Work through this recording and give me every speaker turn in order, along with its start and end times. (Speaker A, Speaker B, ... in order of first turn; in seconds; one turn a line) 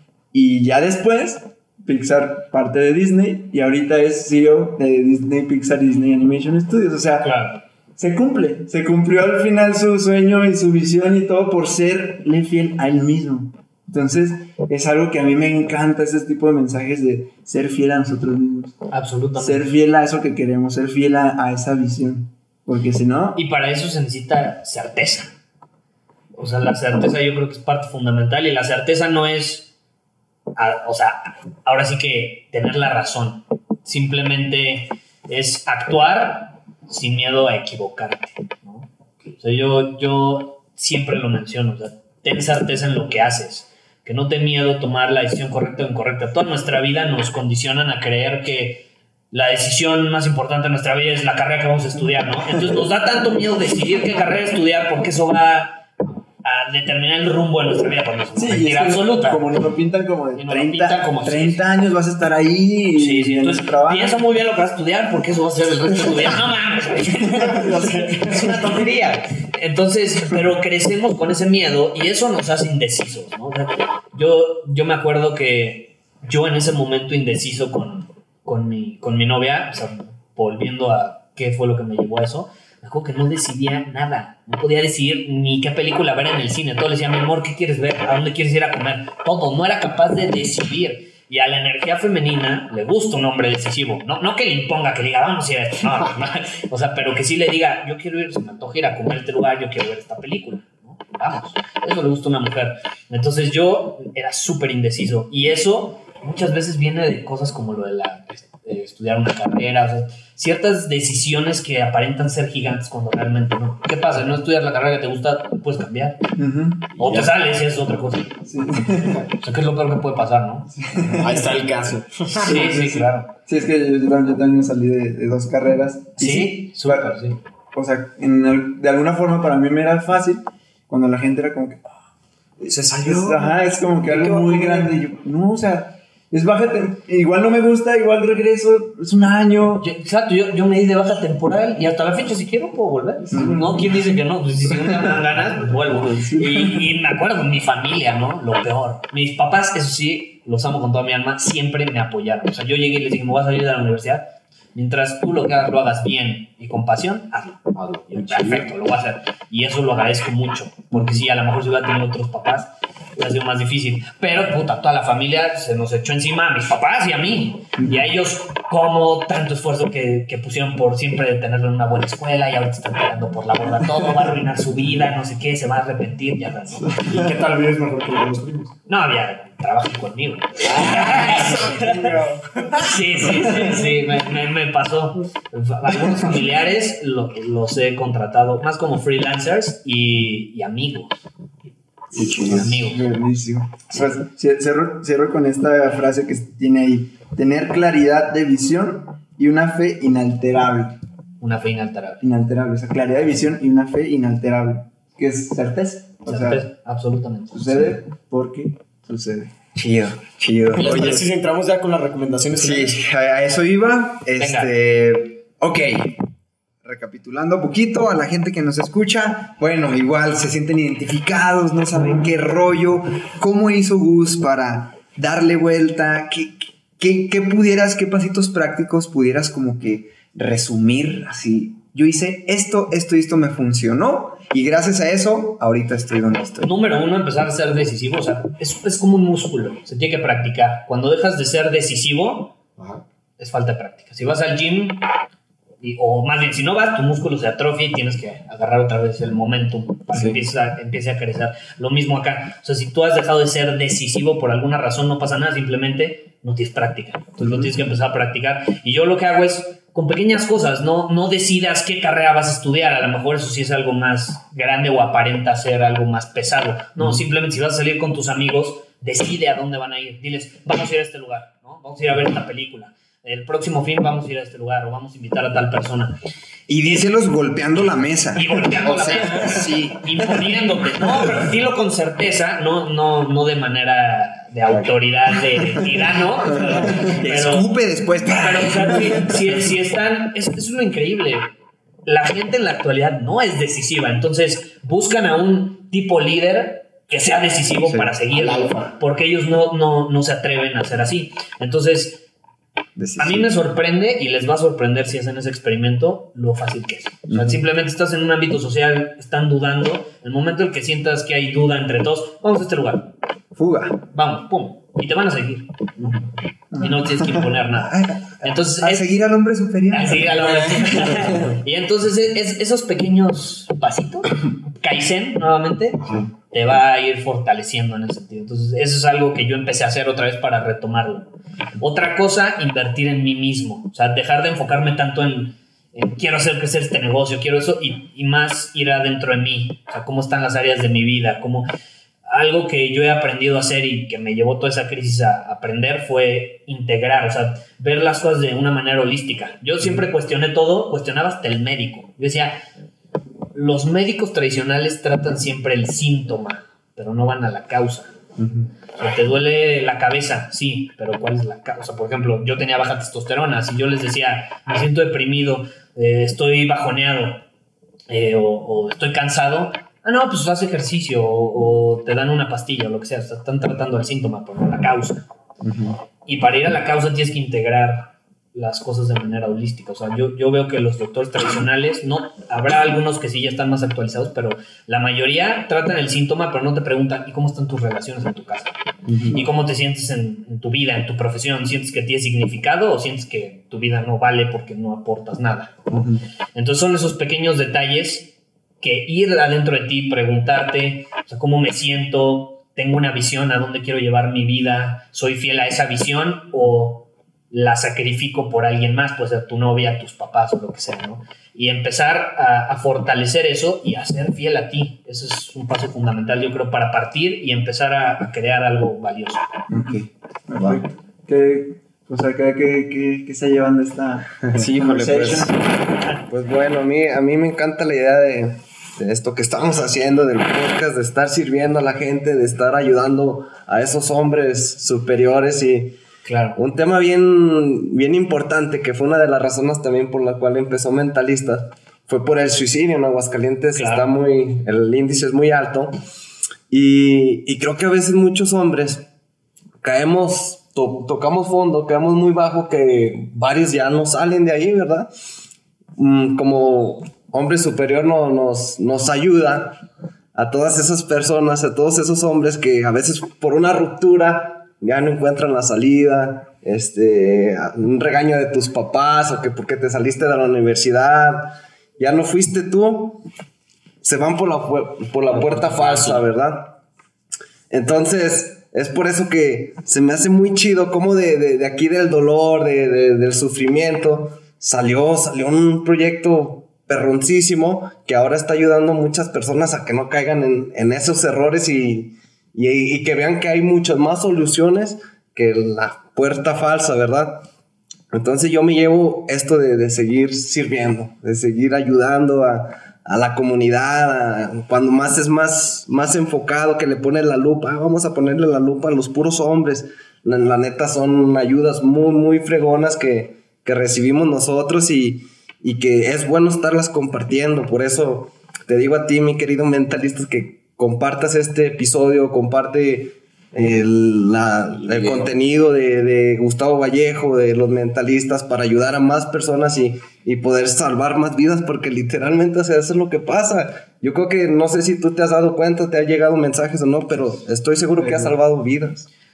Speaker A: 0.3-7.3
Speaker B: 7.2-7.6
Speaker A: 8.0-18.8
Speaker B: 18.9-19.6
Speaker A: 19.4-23.4
Speaker B: 23.4-25.3
Speaker B: 26.3-29.7
Speaker B: 30.6-55.8
Speaker B: 56.4-59.4
Speaker A: 58.3-64.2
Speaker B: 60.4-61.6
Speaker B: 62.9-116.2
Speaker C: 67.5-68.6
Speaker A: 116.3-116.9
Speaker C: 117.0-117.3
Speaker B: 117.0-118.4
Speaker A: 118.5-119.3
Speaker B: 119.3-120.7
Speaker A: 120.8-121.5
Speaker C: 121.1-122.8
Speaker B: 122.4-123.3
Speaker A: 122.5-127.1
Speaker B: 126.2-127.4
Speaker A: 127.7-131.9
Speaker A: 132.6-139.8
Speaker C: 132.7-133.5
Speaker D: 134.1-135.0
Speaker B: 139.8-176.9
Speaker A: 143.3-144.0
Speaker A: 144.7-145.1
Speaker A: 146.0-146.9
Speaker C: 157.7-158.7
Speaker C: 176.9-178.7
Speaker B: 178.9-182.1
Speaker C: 180.7-182.6
Speaker A: 181.1-183.7
Speaker B: 182.8-191.2
Speaker D: 192.1-192.7
Speaker A: 192.1-201.0
Speaker B: 192.3-193.0
Speaker B: 201.4-202.2
Speaker A: 202.2-206.7
Speaker B: 206.2-207.9
Speaker A: 207.5-209.5
Speaker D: 209.7-211.2
Speaker C: 210.7-213.0
Speaker D: 212.6-216.2
Speaker B: 214.4-214.7
Speaker D: 216.8-236.7
Speaker B: 236.6-242.6
Speaker B: 243.4-245.1
Speaker B: 245.8-276.2
Speaker D: 276.7-280.4
Speaker B: 278.4-287.7
Speaker D: 286.8-289.4
Speaker B: 288.3-291.5
Speaker B: 292.0-302.2
Speaker D: 297.8-298.1
Speaker C: 298.3-298.9
Speaker D: 302.9-303.5
Speaker B: 303.2-313.1
Speaker D: 307.3-307.6
Speaker D: 313.5-314.0
Speaker B: 314.1-319.2
Speaker D: 317.8-321.3
Speaker B: 319.9-341.7
Speaker C: 326.0-326.3
Speaker B: 342.3-352.6
Speaker B: 353.5-358.1
Speaker B: 359.0-367.4
Speaker B: 368.1-375.3
Speaker B: 376.2-388.8
Speaker D: 389.1-389.4
Speaker A: 389.1-389.4
Speaker B: 389.3-395.8
Speaker B: 396.5-419.5
Speaker A: 419.7-425.6
Speaker D: 419.7-420.1
Speaker E: 424.6-425.5
Speaker D: 424.8-425.3
Speaker E: 426.2-435.9
Speaker B: 436.2-436.6
Speaker E: 436.6-446.0
Speaker B: 443.7-444.1
Speaker E: 446.7-449.1
Speaker E: 449.8-455.1
Speaker E: 455.9-473.2
Speaker E: 474.0-476.8
Speaker C: 475.3-476.2
Speaker E: 477.7-497.5
Speaker E: 498.1-539.1
Speaker C: 524.8-525.3
Speaker A: 538.0-538.3